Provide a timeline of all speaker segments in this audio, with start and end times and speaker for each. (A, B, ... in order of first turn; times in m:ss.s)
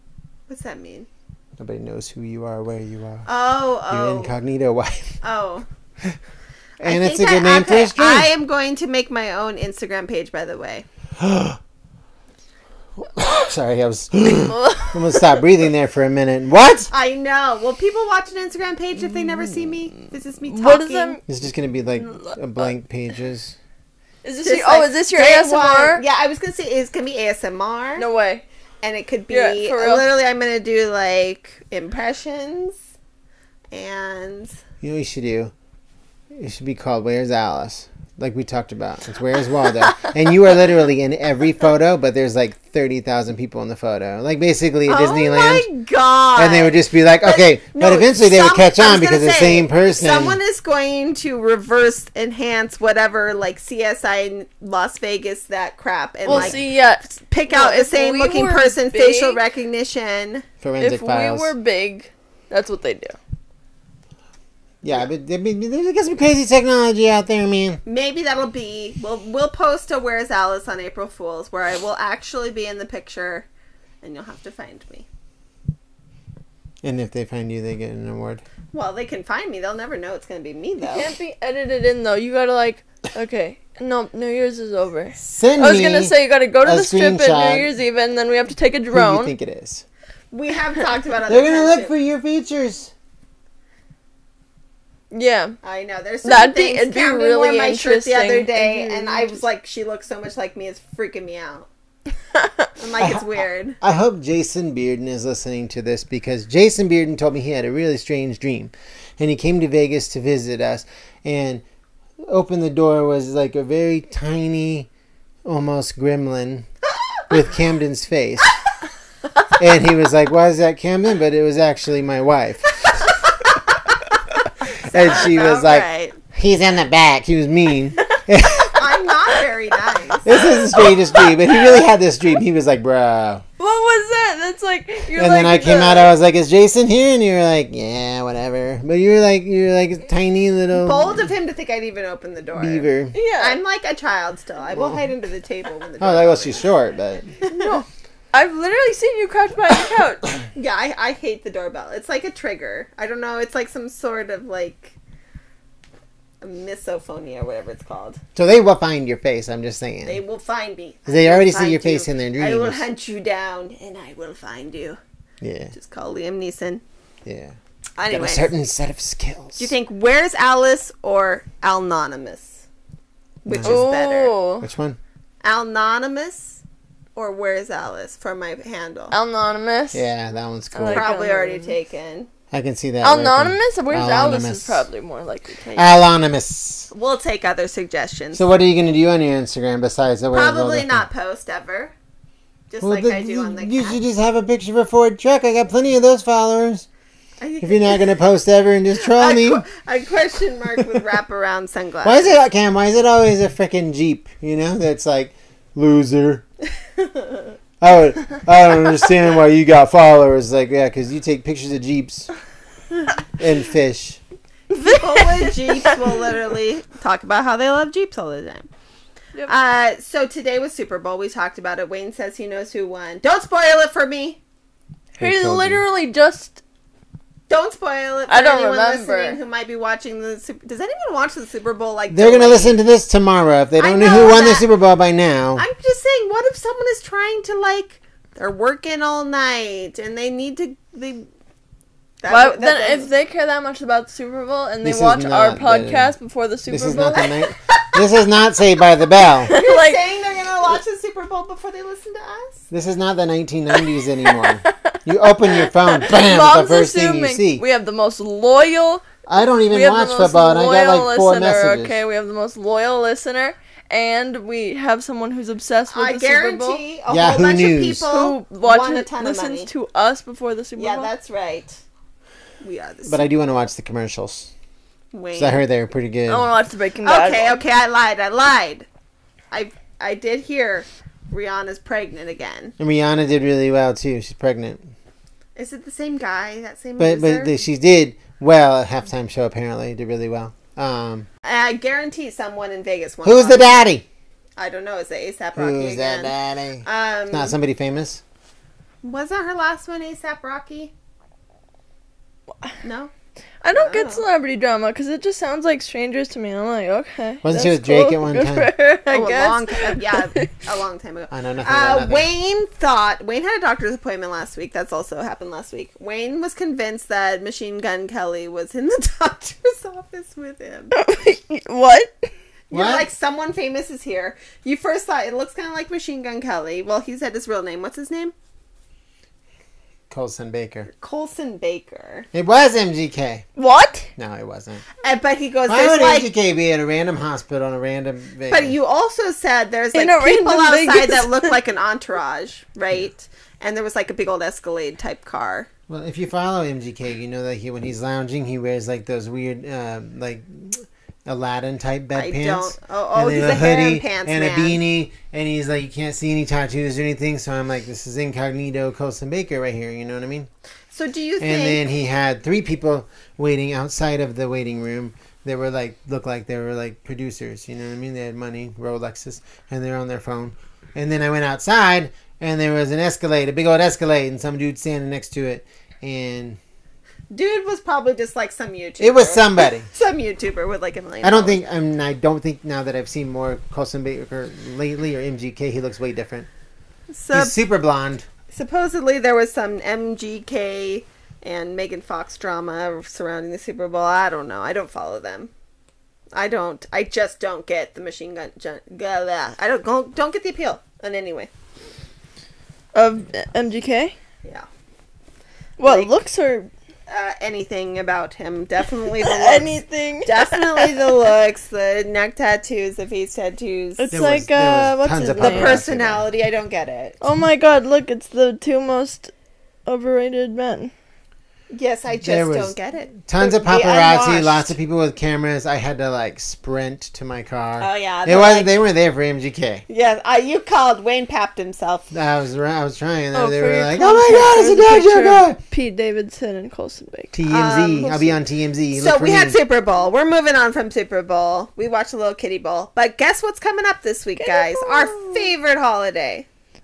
0:00.5-0:01.1 A
0:01.6-0:03.3 B
0:03.3-0:04.4 A
0:03.9-0:05.2 B
0:05.2-0:05.7 A
0:06.8-0:10.9 A
0:06.8-0:08.3 B
0:11.2-0:11.6 B
0:13.0-0:16.9 B
0:14.5-0:15.2 C
0:16.9-0:21.2 A
0:19.1-0:19.7 C
0:20.4-0:21.2 C
0:21.3-0:23.6 B
0:21.9-0:22.7 C
0:24.2-0:26.0 C
0:24.4-0:28.0 A
0:28.0-0:28.4 C
0:28.8-0:32.8 A
0:29.3-0:30.1 C
0:33.7-0:34.6 A
0:34.8-0:35.5 B
0:36.3-0:45.7 B
0:44.9-1:00.4 A
0:46.4-0:50.4 B
0:56.3-0:59.4 C
0:56.3-0:56.6 B
1:00.6-1:01.5 B
1:00.8-1:03.2 C
1:04.8-1:07.8 B
1:07.9-1:13.5 A
1:14.0-1:15.1 A
1:16.8-1:18.4 B
1:18.7-1:21.1 A
1:20.9-1:29.3 C
1:25.2-1:27.7 B
1:28.9-1:29.8 B
1:30.3-1:31.9 A
1:31.3-1:32.9 B
1:35.1-1:35.6 C
1:35.6-1:41.7 A
1:36.2-1:39.4 C
1:42.8-1:43.8 A
1:43.0-1:51.6 B
1:52.2-1:54.9 B
1:55.4-1:56.7 B
1:57.3-1:58.6 B
1:59.6-2:03.0 B
2:04.7-2:06.2 A
2:04.9-2:08.9 B
2:08.7-2:11.0 A
2:10.2-2:13.4 B
2:10.8-2:11.3 C
2:13.6-2:16.1 C
2:15.1-2:21.3 B
2:20.7-2:26.7 A
2:22.6-2:23.2 B
2:23.1-2:23.6 C
2:24.7-2:25.0 B
2:26.0-2:27.3 B
2:27.4-2:27.8 A
2:27.5-2:30.2 C
2:30.6-2:35.0 A
2:36.4-2:38.2 A
2:38.4-2:40.2 B
2:40.0-2:45.0 A
2:41.1-2:42.8 B
2:45.4-2:45.7 B
2:45.7-2:46.8 A
2:47.2-2:47.6 B
2:48.0-2:48.5 A
2:48.1-2:49.7 B
2:49.6-2:52.6 A
2:53.4-2:54.4 A
2:53.5-2:53.9 B
2:53.6-2:54.7 C
2:54.6-2:55.0 B
2:55.4-2:56.6 A
2:57.2-2:59.2 A
2:59.1-3:00.0 C
2:59.9-3:01.1 B
3:00.7-3:01.8 C
3:00.9-3:02.3 A
3:02.5-3:04.9 B
3:03.0-3:05.9 C
3:05.8-3:06.9 B
3:06.9-3:08.5 A
3:08.3-3:11.1 B
3:10.3-3:11.9 A
3:12.7-3:14.0 A
3:12.8-3:16.9 B
3:17.4-3:18.1 A
3:17.6-3:19.7 B
3:19.0-3:22.4 A
3:22.0-3:26.4 B
3:27.0-3:27.5 A
3:27.8-3:32.3 B
3:33.4-3:34.2 B
3:34.7-3:36.2 C
3:34.7-3:38.7 A
3:39.5-3:44.4 A
3:45.2-3:46.6 C
3:45.2-3:45.8 B
3:47.5-3:52.8 A
3:48.3-3:49.4 C
3:52.1-3:55.6 B
3:53.8-3:54.7 A
3:55.6-4:01.3 A
4:02.2-4:03.1 A
4:02.3-4:07.5 C
4:04.8-4:06.1 B
4:06.7-4:09.6 B
4:09.4-4:10.0 C
4:09.5-4:12.6 A
4:12.7-4:17.6 B
4:13.7-4:15.0 C
4:15.5-4:19.1 C
4:19.3-4:22.0 B
4:19.7-4:26.8 C
4:25.9-4:29.7 A
4:27.1-4:28.1 B
4:28.0-4:31.1 C
4:30.8-4:31.8 A
4:32.6-4:33.3 A
4:33.1-4:34.5 B
4:35.1-4:35.6 A
4:35.4-4:36.5 B
4:36.3-4:37.6 C
4:37.0-4:38.9 A
4:39.5-4:42.8 A
4:42.8-4:44.9 B
4:45.6-4:47.6 A
4:47.0-4:51.3 B
4:51.4-4:53.9 A
4:53.2-4:54.0 B
4:54.6-4:57.6 A
4:55.6-4:58.2 B
4:59.0-5:00.9 A
5:02.8-5:03.1 A
5:03.6-5:10.5 C
5:03.7-5:04.2 A
5:07.4-5:08.7 B
5:09.1-5:21.0 A
5:11.3-5:12.3 B
5:20.9-5:22.3 C
5:22.7-5:28.3 A
5:22.7-5:23.1 B
5:30.1-5:30.9 B
5:30.9-5:32.3 A
5:32.3-5:33.4 B
5:33.6-5:34.1 C
5:34.2-5:34.8 B
5:35.0-5:36.3 A
5:35.7-5:38.8 B
5:38.5-5:45.7 A
5:39.9-5:41.6 C
5:45.9-6:00.5 B
5:52.1-5:54.8 A
6:00.9-6:01.8 A
6:01.4-6:16.6 B
6:17.3-6:21.6 A
6:19.0-6:19.9 B
6:21.2-6:26.5 B
6:27.1-6:27.6 A
6:27.3-6:28.3 B
6:28.5-6:35.5 A
6:36.3-6:41.5 A
6:42.9-6:44.2 C
6:45.8-6:46.7 C
6:45.8-6:46.2 A
6:47.1-6:49.7 A
6:49.2-6:51.2 C
6:50.2-6:54.2 A
6:54.0-6:55.8 C
6:54.1-6:56.3 B
6:55.4-6:57.2 A
6:57.2-6:59.3 C
6:59.9-7:00.9 C
7:01.7-7:04.8 A
7:02.2-7:09.8 B
7:07.8-7:08.7 A
7:09.9-7:12.1 A
7:12.1-7:15.6 B
7:13.3-7:17.3 C
7:17.3-7:19.6 B
7:17.5-7:26.5 A
7:24.4-7:25.5 C